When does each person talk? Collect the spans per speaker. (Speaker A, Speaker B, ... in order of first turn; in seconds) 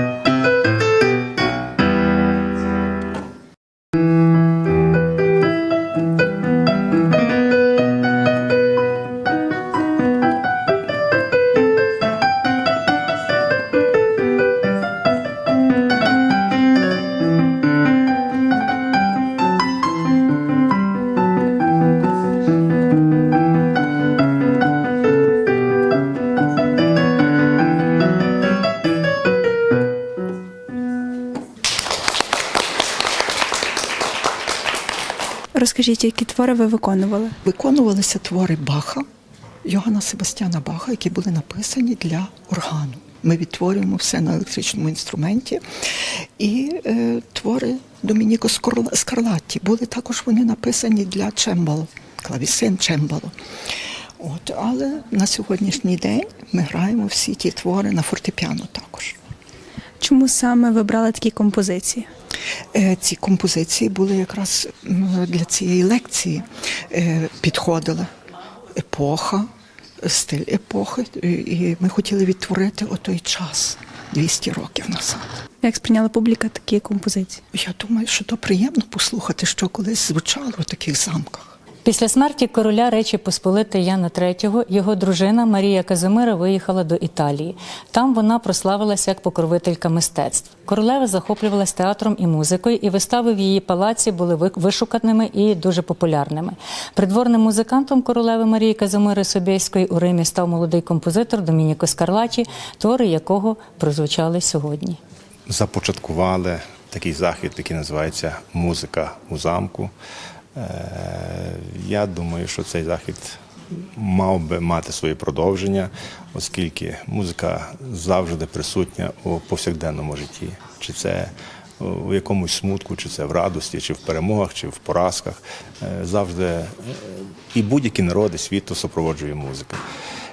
Speaker A: 35.5-37.4, 60.0-62.1, 75.6-77.4
Speaker B: 37.4-39.0, 39.6-53.3, 54.2-59.1, 62.7-68.1, 68.8-69.5, 70.0-75.3, 77.5-81.5
Speaker C: 81.8-105.0
Speaker D: 105.5-109.9, 110.5-129.8